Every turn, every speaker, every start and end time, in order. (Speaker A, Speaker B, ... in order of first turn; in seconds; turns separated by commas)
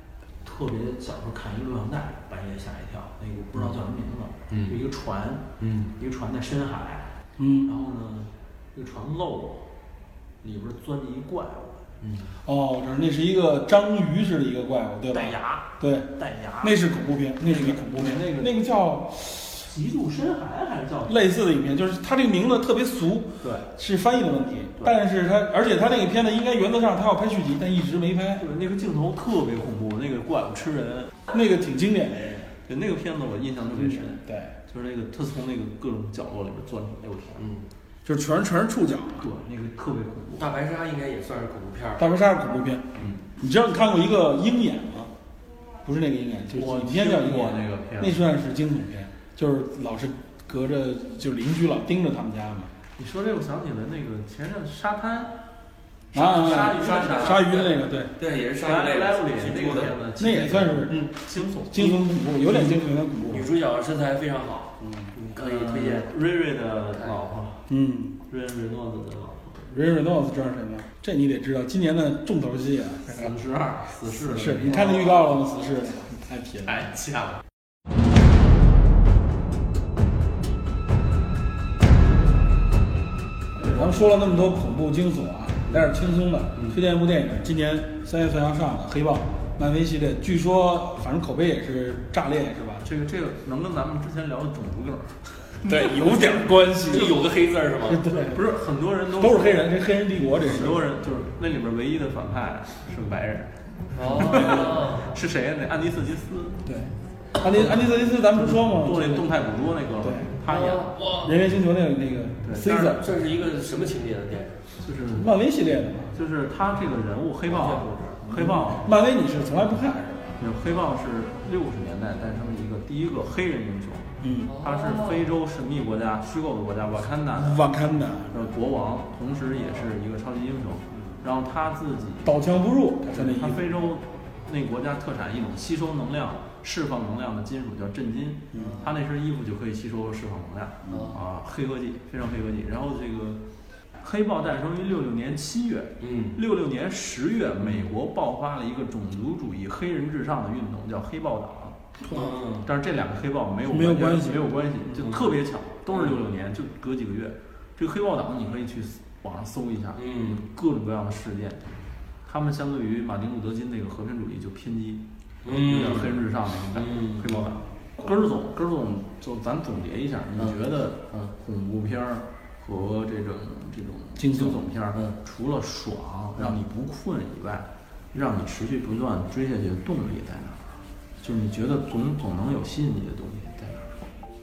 Speaker A: 0.4-9.7, Speaker B: 5.6-5.9, Speaker C: 7.4-7.7, Speaker A: 10.4-11.9, Speaker B: 12.0-12.3, Speaker C: 12.4-19.7, Speaker A: 15.1-16.8, Speaker A: 17.4-18.6, Speaker A: 19.6-21.2, Speaker C: 21.1-28.4, Speaker A: 23.4-23.7, Speaker A: 28.4-31.1, Speaker C: 31.3-32.5, Speaker A: 32.6-37.5, Speaker C: 33.8-34.5, Speaker B: 37.4-37.7, Speaker C: 38.0-39.3, Speaker A: 39.2-40.5, Speaker B: 40.4-42.0, Speaker C: 42.0-45.1, Speaker C: 45.8-52.7, Speaker A: 46.5-48.2, Speaker A: 53.0-55.4, Speaker A: 56.1-57.7, Speaker C: 56.1-58.1, Speaker B: 56.3-60.0, Speaker A: 58.6-62.6, Speaker C: 60.2-61.1, Speaker C: 61.6-63.5, Speaker B: 63.3-66.1, Speaker C: 64.8-65.1, Speaker A: 65.3-67.7, Speaker C: 67.7-68.2, Speaker A: 68.3-69.5, Speaker C: 69.6-73.3, Speaker A: 73.1-75.1, Speaker C: 74.0-76.9, Speaker A: 76.6-77.4, Speaker A: 83.6-84.2, Speaker C: 83.6-92.8, Speaker A: 92.8-96.3, Speaker C: 95.6-97.2, Speaker B: 96.3-98.2, Speaker C: 97.8-98.5, Speaker A: 98.1-99.7, Speaker C: 99.1-100.8, Speaker A: 100.3-106.7, Speaker B: 103.9-105.1, Speaker C: 106.7-109.3, Speaker A: 107.5-111.0, Speaker C: 110.0-110.3, Speaker B: 110.5-111.3, Speaker C: 111.2-113.2, Speaker A: 112.4-113.0, Speaker B: 112.6-114.6, Speaker A: 114.8-115.3, Speaker C: 115.1-116.1, Speaker A: 116.1-118.9, Speaker B: 117.5-117.9, Speaker C: 118.3-120.4, Speaker A: 120.4-127.7, Speaker C: 124.2-124.5, Speaker B: 124.5-125.3, Speaker C: 127.4-128.5, Speaker A: 128.3-132.4, Speaker C: 132.2-133.9, Speaker A: 133.1-143.4, Speaker B: 138.5-138.9, Speaker B: 140.9-141.2, Speaker A: 144.0-151.8, Speaker B: 146.0-146.4, Speaker B: 152.1-152.7, Speaker A: 152.6-184.0, Speaker C: 153.7-154.5, Speaker B: 160.0-160.4, Speaker B: 165.4-166.2, Speaker B: 166.7-167.3, Speaker C: 174.2-174.7